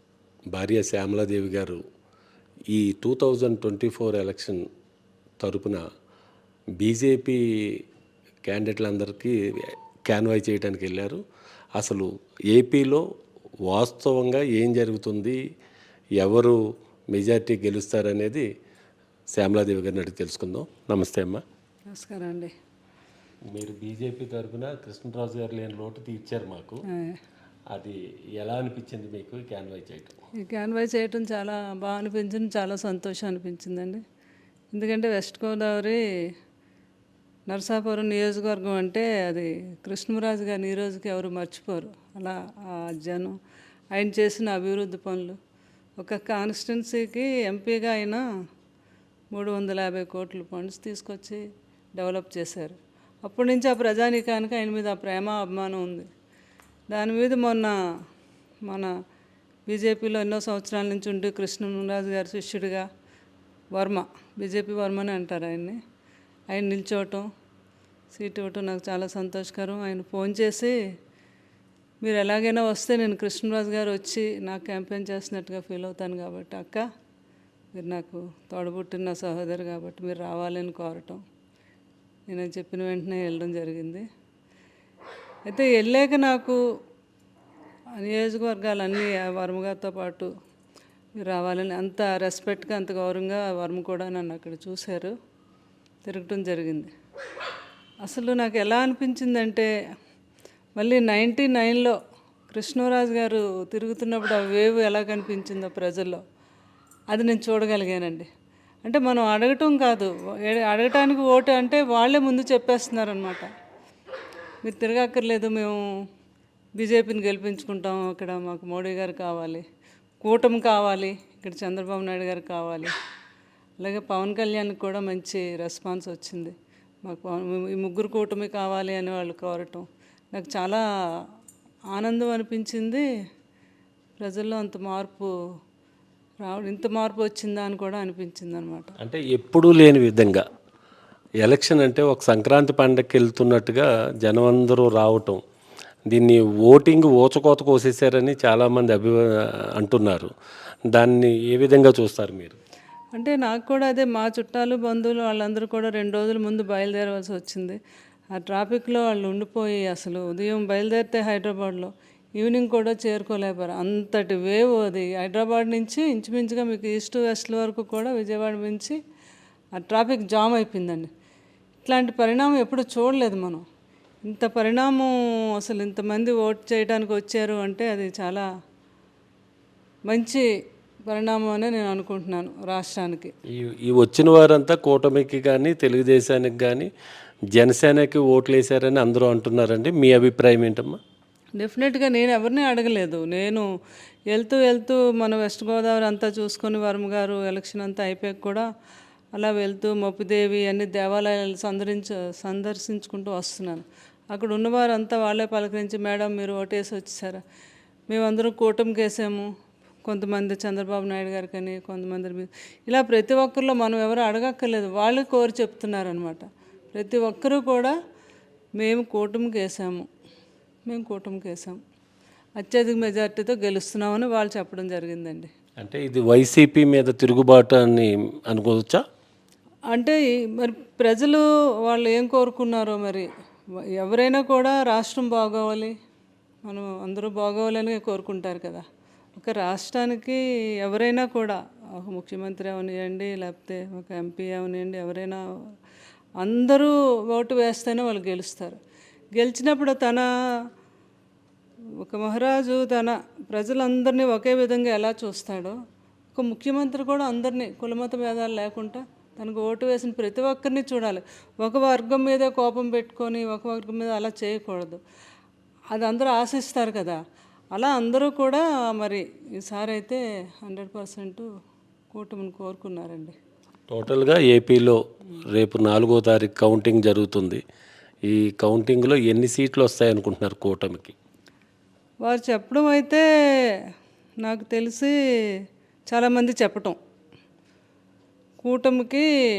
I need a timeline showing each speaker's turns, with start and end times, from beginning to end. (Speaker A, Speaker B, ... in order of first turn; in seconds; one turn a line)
Speaker A: 0.5-1.8
Speaker A: 2.7-4.6
Speaker A: 5.4-5.8
Speaker A: 6.8-7.8
Speaker A: 8.4-11.2
Speaker A: 11.8-13.0
Speaker A: 13.7-15.4
Speaker A: 16.2-16.6
Speaker A: 17.1-18.5
Speaker A: 19.3-21.4
Speaker B: 21.9-22.5
Speaker A: 23.5-26.8
Speaker B: 26.9-27.2
Speaker A: 27.7-30.2
Speaker B: 30.4-34.0
Speaker B: 34.7-36.0
Speaker B: 37.5-43.3
Speaker B: 43.9-45.4
Speaker B: 46.0-48.2
Speaker B: 49.3-51.4
Speaker B: 52.0-56.1
Speaker B: 56.9-57.7
Speaker B: 58.6-58.9
Speaker B: 59.6-62.9
Speaker B: 63.7-65.8
Speaker B: 66.5-67.2
Speaker B: 68.1-70.8
Speaker B: 72.0-76.8
Speaker B: 77.7-81.2
Speaker B: 82.3-84.0
Speaker B: 85.5-86.6
Speaker B: 88.0-90.3
Speaker B: 91.2-95.1
Speaker B: 96.0-96.9
Speaker B: 98.0-99.7
Speaker B: 100.8-102.0
Speaker B: 102.5-106.2
Speaker B: 107.1-108.3
Speaker B: 108.8-113.5
Speaker B: 114.6-115.8
Speaker B: 116.8-119.6
Speaker B: 120.2-122.9
Speaker B: 123.8-130.8
Speaker B: 131.9-133.0
Speaker B: 134.2-135.3
Speaker B: 136.4-138.9
Speaker A: 139.0-140.4
Speaker A: 141.4-145.4
Speaker A: 146.1-150.3
Speaker A: 150.9-152.6
Speaker B: 153.1-157.8
Speaker B: 158.3-169.0
Speaker B: 169.7-171.1
Speaker B: 171.8-173.6
Speaker B: 174.3-178.4
Speaker B: 180.1-180.4
Speaker B: 181.1-183.3
Speaker A: 183.5-186.9
Speaker A: 187.5-191.0
Speaker B: 191.6-193.7
Speaker B: 194.3-198.6
Speaker B: 199.3-207.4
Speaker B: 208.1-209.5
Speaker B: 210.0-217.9
Speaker B: 218.8-220.1
Speaker B: 220.9-221.8
Speaker B: 222.6-225.5
Speaker A: 225.8-229.0
Speaker B: 229.9-233.3
Speaker B: 234.0-235.9
Speaker B: 236.7-245.8
Speaker B: 246.4-248.8
Speaker B: 249.3-250.3
Speaker B: 252.0-255.8
Speaker B: 256.3-265.0
Speaker B: 265.9-267.2
Speaker B: 267.7-271.5
Speaker B: 272.1-273.4
Speaker A: 273.9-275.0
Speaker A: 275.5-277.6
Speaker A: 278.3-281.1
Speaker B: 282.2-283.2
Speaker B: 284.4-285.1
Speaker B: 286.1-286.9
Speaker B: 288.6-289.3